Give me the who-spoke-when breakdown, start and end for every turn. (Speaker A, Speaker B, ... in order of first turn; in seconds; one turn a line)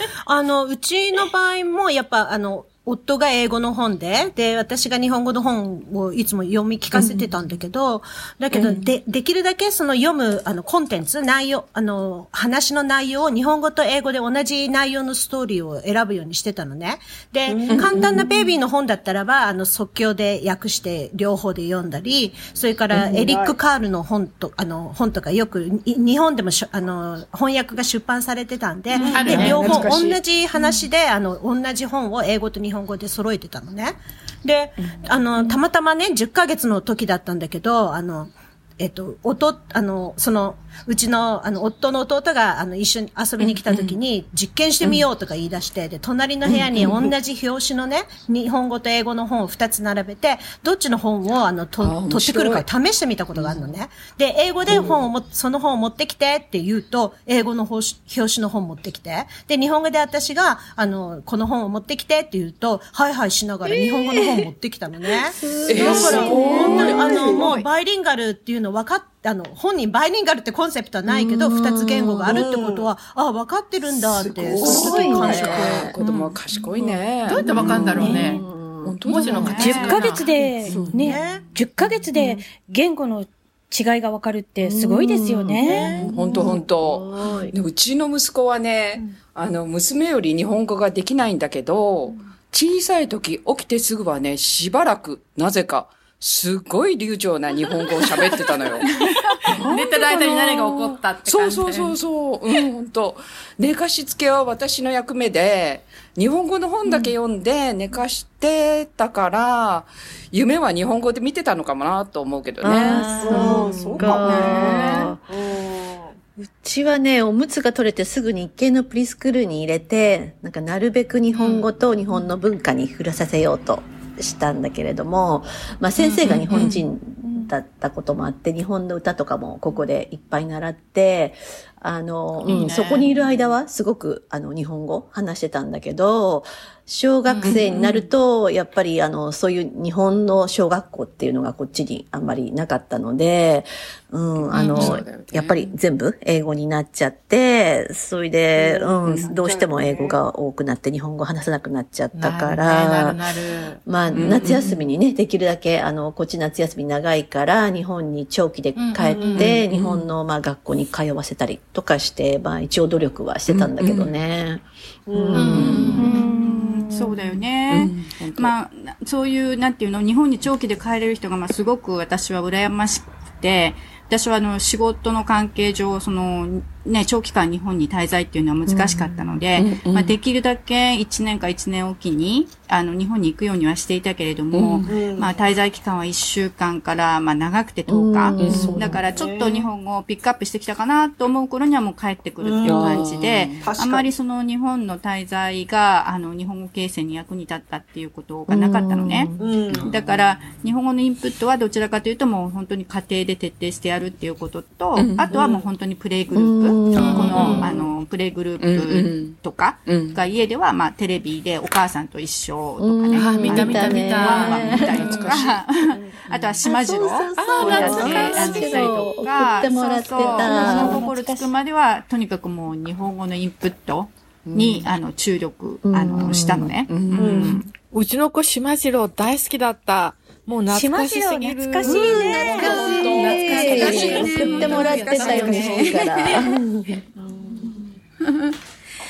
Speaker A: 0.2-75.9
Speaker B: 8.6-8.8
Speaker C: 17.5-17.9
Speaker B: 17.7-18.2
Speaker C: 23.0-23.6
Speaker C: 29.0-29.6
Speaker D: 29.1-29.9
Speaker B: 29.2-30.2
Speaker B: 34.8-35.1
Speaker B: 43.4-44.0
Speaker B: 46.5-47.1
Speaker B: 51.8-52.7
Speaker B: 53.4-53.8
Speaker B: 65.7-67.1
Speaker E: 65.7-66.8
Speaker F: 65.8-66.6
Speaker C: 65.8-67.6
Speaker G: 66.0-67.6
Speaker E: 71.0-72.5
Speaker C: 72.2-72.9
Speaker C: 74.1-75.8
Speaker B: 74.6-78.1
Speaker E: 74.6-76.0
Speaker A: 77.3-78.1
Speaker D: 77.3-78.4
Speaker E: 77.4-79.9
Speaker F: 78.0-78.4
Speaker B: 78.8-79.9
Speaker D: 79.1-80.2
Speaker F: 79.1-86.0
Speaker G: 79.4-80.0
Speaker A: 79.8-81.5
Speaker B: 80.6-81.0
Speaker E: 80.7-80.9
Speaker E: 82.1-82.4
Speaker E: 84.6-87.6
Speaker B: 86.1-98.9
Speaker G: 98.9-100.8
Speaker B: 99.5-99.8
Speaker D: 99.7-102.0
Speaker F: 100.3-100.6
Speaker B: 101.2-113.4
Speaker E: 112.6-115.2
Speaker F: 112.9-113.5
Speaker C: 113.2-116.2
Speaker G: 114.2-115.0
Speaker B: 114.4-114.8
Speaker E: 116.4-153.2
Speaker D: 121.3-121.7
Speaker D: 126.0-126.8
Speaker B: 126.4-126.8
Speaker F: 127.2-127.5
Speaker D: 132.4-133.1
Speaker D: 137.3-137.7
Speaker B: 137.4-138.1
Speaker B: 144.4-145.8
Speaker D: 144.7-145.0
Speaker C: 148.6-150.2
Speaker B: 149.1-149.3
Speaker D: 152.1-154.5
Speaker E: 153.8-166.1
Speaker B: 154.1-154.8
Speaker D: 158.8-159.6
Speaker C: 159.1-159.5
Speaker B: 159.4-160.1
Speaker B: 163.5-164.1
Speaker C: 165.1-165.7
Speaker D: 165.3-166.2
Speaker B: 165.4-165.9
Speaker G: 165.6-199.3
Speaker F: 166.0-167.1
Speaker B: 167.7-168.6
Speaker E: 178.7-179.4
Speaker B: 179.6-180.2
Speaker B: 184.5-184.9
Speaker C: 184.9-185.4
Speaker E: 187.9-189.0
Speaker B: 188.4-189.0
Speaker C: 189.0-189.7
Speaker C: 192.4-193.1
Speaker B: 192.6-193.7
Speaker C: 193.6-194.1
Speaker E: 198.5-199.5
Speaker C: 199.4-199.9
Speaker B: 199.7-200.2
Speaker G: 199.9-226.9
Speaker B: 204.9-205.3
Speaker C: 205.3-205.7
Speaker E: 206.3-207.7
Speaker D: 206.9-207.7
Speaker B: 207.4-207.9
Speaker B: 208.6-210.2
Speaker E: 212.8-215.3
Speaker D: 213.1-215.4
Speaker B: 214.4-215.6
Speaker B: 216.3-216.7
Speaker E: 216.6-221.1
Speaker D: 217.3-219.3
Speaker B: 217.9-218.3
Speaker F: 220.4-221.5
Speaker B: 224.5-224.9
Speaker E: 225.8-226.8
Speaker B: 226.2-227.7
Speaker C: 227.2-227.6
Speaker D: 227.7-232.2
Speaker F: 230.7-236.0
Speaker B: 232.0-234.4
Speaker E: 232.0-237.1
Speaker G: 232.6-236.6
Speaker D: 232.8-235.9
Speaker B: 237.2-237.7
Speaker G: 238.2-238.6